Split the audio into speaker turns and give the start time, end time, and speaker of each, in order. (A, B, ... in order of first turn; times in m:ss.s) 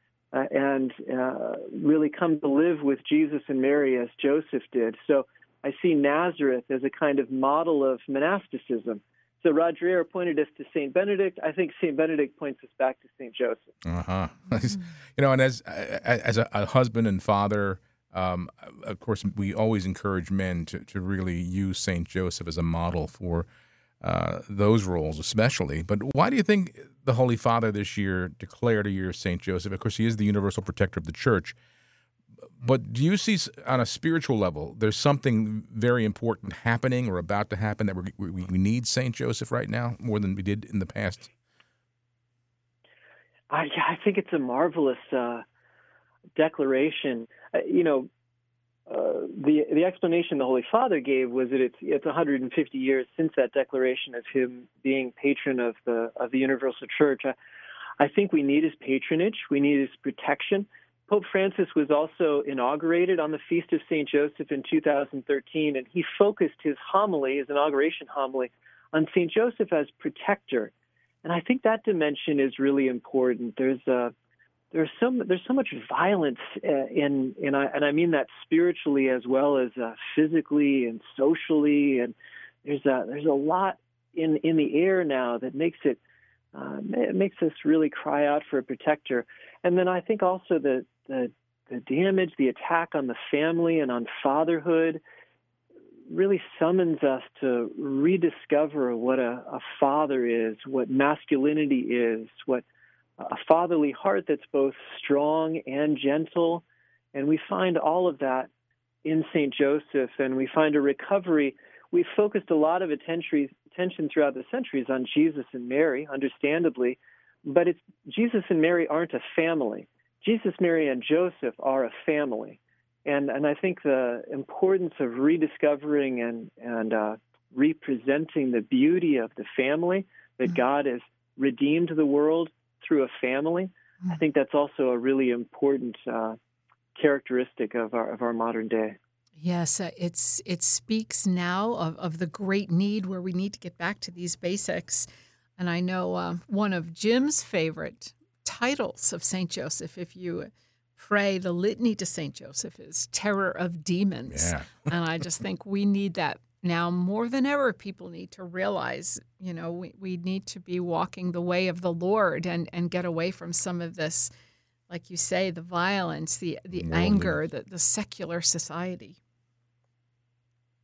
0:00.3-0:13.7 A
0:13.8-0:23.5 B
0:24.0-0:31.6 B
0:32.6-0:41.3 B
0:43.5-0:45.4 A
0:46.4-0:48.1 A
0:48.9-0:57.4 A
0:58.0-1:10.7 A
1:11.2-1:14.1 A
1:14.7-1:26.0 A
1:26.5-1:35.0 A
1:36.1-1:42.6 A
1:43.2-1:48.5 A
1:49.0-2:16.4 A
2:16.9-2:19.0 A
2:19.4-2:25.1 C
2:25.6-2:44.3 C
2:34.3-2:34.9 B
2:44.9-2:49.1 C
2:46.7-2:47.4 B